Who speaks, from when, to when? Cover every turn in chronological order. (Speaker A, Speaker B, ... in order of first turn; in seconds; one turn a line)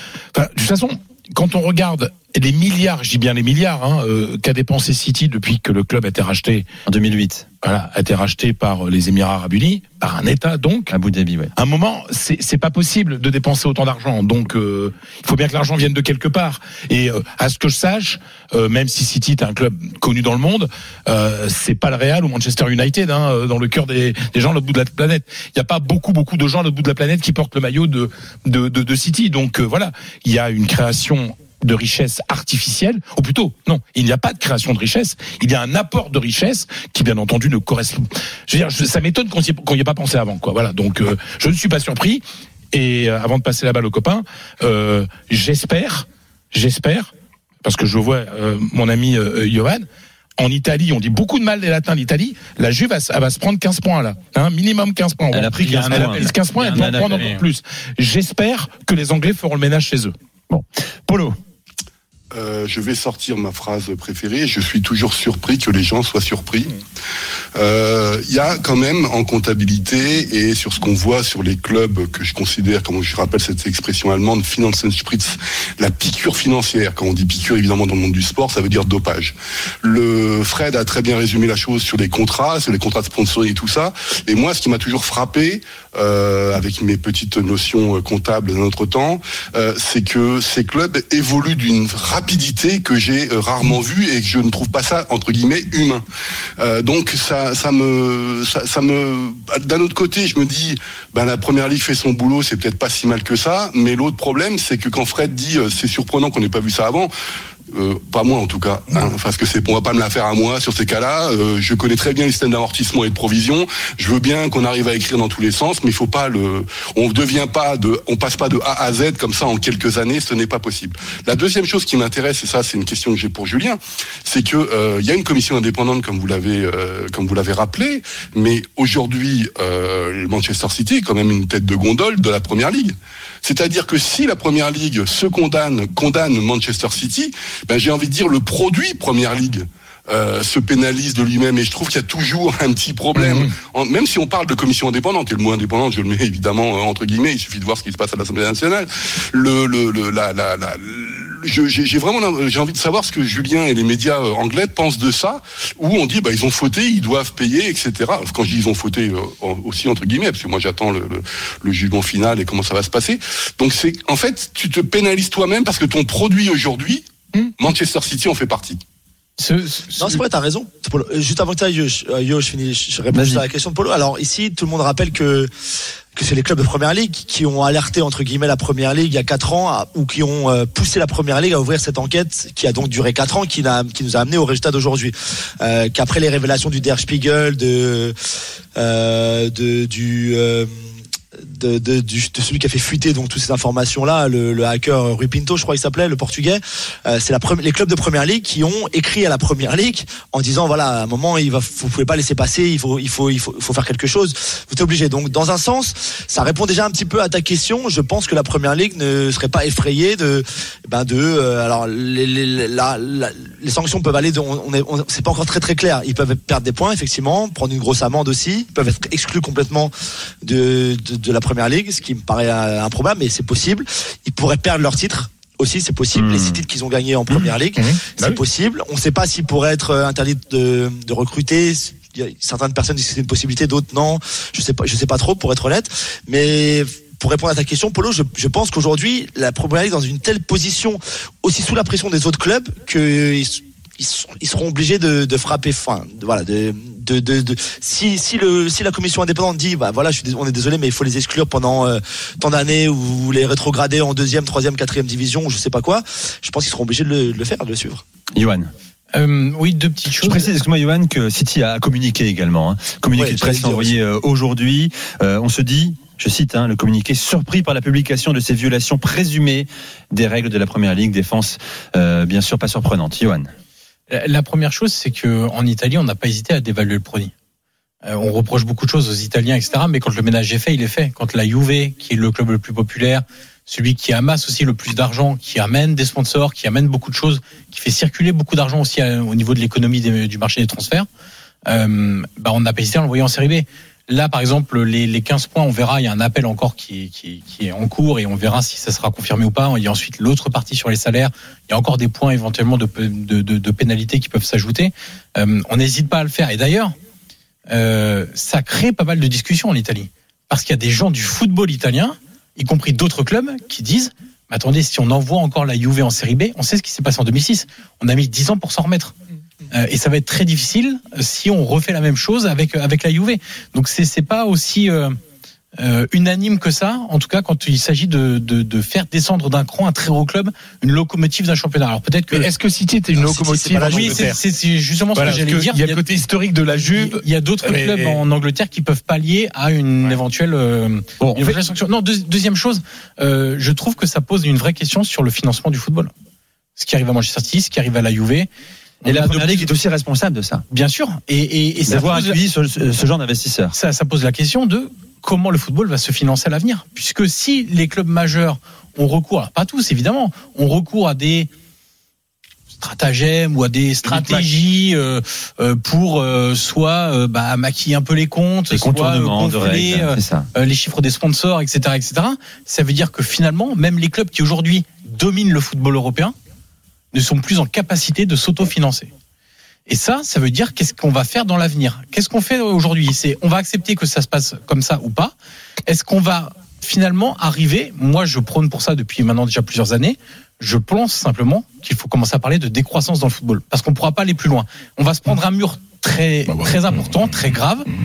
Speaker A: 0.3-6.7
Speaker B: 6.9-7.5
Speaker A: 7.6-10.9
Speaker B: 10.9-11.5
Speaker A: 11.6-47.1
Speaker A: 47.6-49.9
Speaker A: 50.4-60.1
Speaker B: 55.3-57.4
Speaker C: 55.6-57.4
Speaker B: 60.5-61.4
Speaker D: 62.3-66.8
Speaker D: 67.5-96.0
Speaker D: 96.6-107.1
Speaker D: 107.7-167.1
Speaker A: 143.1-143.5
Speaker D: 167.6-168.8
Speaker C: 169.4-170.2
Speaker E: 170.0-175.5
Speaker B: 173.1-173.4
Speaker E: 176.1-188.1
Speaker E: 188.8-258.0
Speaker B: 226.1-226.6
Speaker A: 227.8-228.4
Speaker B: 258.3-258.7
Speaker C: 259.1-260.5
Speaker B: 260.2-273.5
Speaker E: 263.1-264.0
Speaker C: 274.1-277.3
Speaker C: 278.0-291.1
Speaker C: 291.7-306.9
Speaker C: 307.7-319.1
Speaker C: 319.7-325.2
Speaker C: 325.8-332.5
Speaker A: 332.3-334.4
Speaker E: 333.2-334.3
Speaker C: 333.8-336.0
Speaker A: 335.1-338.2
Speaker C: 336.7-346.1
Speaker A: 341.2-341.6
Speaker C: 346.8-348.5
Speaker C: 349.0-349.7
Speaker B: 349.0-350.6
Speaker C: 350.7-352.4
Speaker B: 351.9-353.8
Speaker C: 353.7-361.5
Speaker C: 362.8-376.4
Speaker A: 364.0-364.5
Speaker B: 368.7-370.5
Speaker C: 377.1-379.1
Speaker C: 379.9-385.3
Speaker C: 385.9-397.9
Speaker A: 396.5-397.1